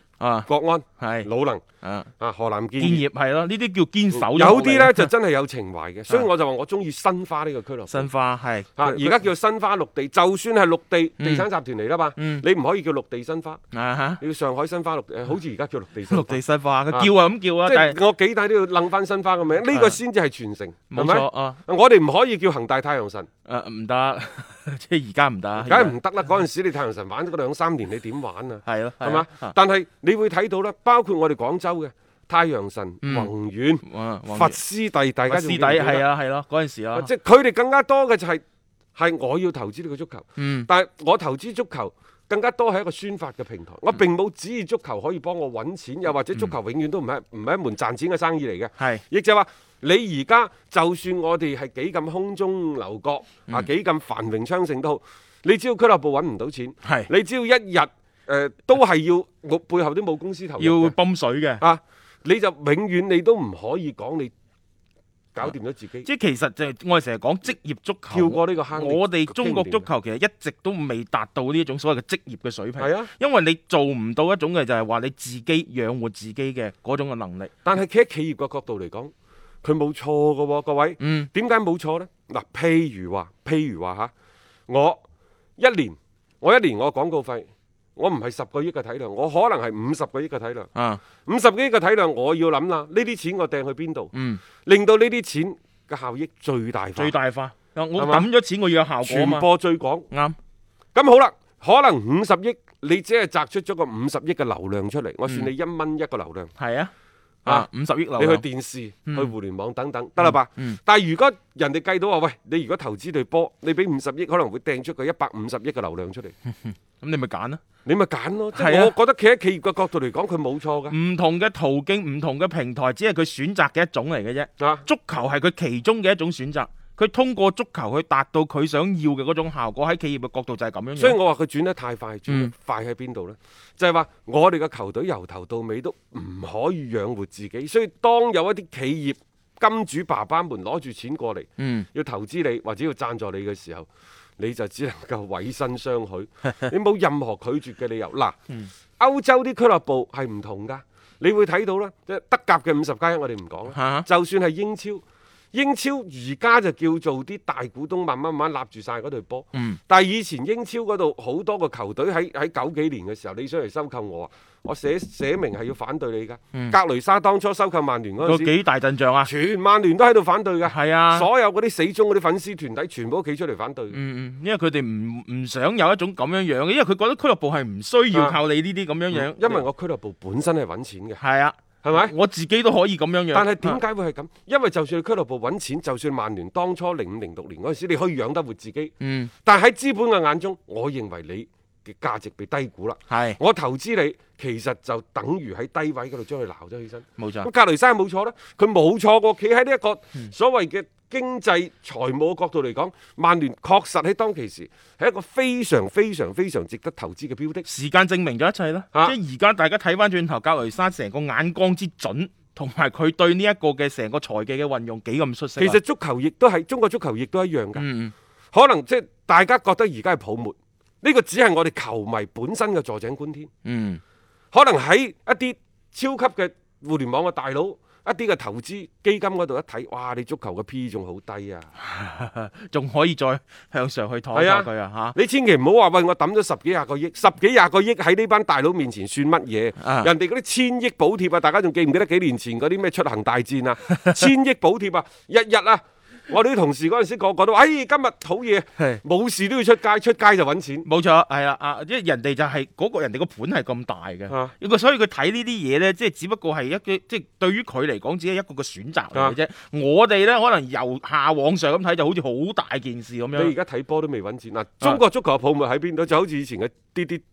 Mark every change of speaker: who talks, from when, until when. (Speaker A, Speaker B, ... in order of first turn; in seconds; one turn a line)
Speaker A: 0.2-1.3
Speaker B: 0.5-1.6
Speaker A: 1.8-2.1
Speaker B: 2.2-3.0
Speaker A: 2.8-5.1
Speaker B: 4.1-8.1
Speaker A: 7.9-9.2
Speaker B: 8.8-13.6
Speaker A: 11.2-11.4
Speaker A: 12.2-12.4
Speaker A: 13.7-14.2
Speaker B: 14.2-16.4
Speaker A: 16.1-18.0
Speaker B: 17.6-23.3
Speaker A: 19.7-20.0
Speaker A: 20.9-21.6
Speaker A: 23.4-26.0
Speaker B: 25.6-36.1
Speaker A: 28.6-29.5
Speaker A: 33.0-33.3
Speaker A: 33.8-34.6
Speaker A: 35.3-37.1
Speaker B: 36.9-38.4
Speaker B: 39.0-60.9
Speaker A: 40.4-40.7
Speaker A: 56.8-57.1
Speaker A: 60.6-61.6
Speaker B: 61.6-64.3
Speaker B: 65.3-66.1
Speaker A: 66.0-77.5
Speaker B: 68.1-69.9
Speaker B: 72.8-73.1
Speaker B: 77.6-84.1
Speaker A: 81.0-81.3
Speaker B: 84.7-85.0
Speaker B: 85.6-90.7
Speaker A: 90.7-91.0
Speaker B: 91.2-94.1
Speaker A: 94.1-94.4
Speaker B: 94.6-97.2
Speaker A: 97.0-99.5
Speaker B: 98.0-98.3
Speaker B: 99.0-100.1
Speaker A: 100.1-100.3
Speaker B: 100.9-106.5
Speaker A: 106.6-106.9
Speaker A: 107.4-108.4
Speaker B: 107.5-116.3
Speaker A: 110.2-110.8
Speaker A: 116.6-117.6
Speaker B: 117.8-120.9
Speaker A: 118.5-118.9
Speaker A: 120.9-131.2
Speaker B: 124.6-124.8
Speaker B: 131.0-148.4
Speaker A: 141.6-141.9
Speaker B: 149.0-168.5
Speaker A: 153.7-154.1
Speaker A: 159.5-159.8
Speaker A: 168.2-169.3
Speaker B: 169.2-173.9
Speaker A: 170.7-171.3
Speaker A: 173.9-179.6
Speaker B: 179.1-181.2
Speaker A: 181.2-183.8
Speaker B: 181.8-182.1
Speaker B: 183.3-188.9
Speaker A: 189.0-189.3
Speaker B: 189.4-207.7
Speaker A: 193.1-193.4
Speaker A: 197.2-197.5
Speaker A: 207.7-215.8
Speaker B: 215.6-217.8
Speaker A: 217.7-218.1
Speaker B: 218.5-223.5
Speaker A: 223.6-224.0
Speaker B: 224.5-231.7
Speaker A: 231.8-235.2
Speaker B: 234.3-250.9
Speaker A: 239.8-240.1
Speaker A: 250.8-263.5
Speaker B: 263.3-267.2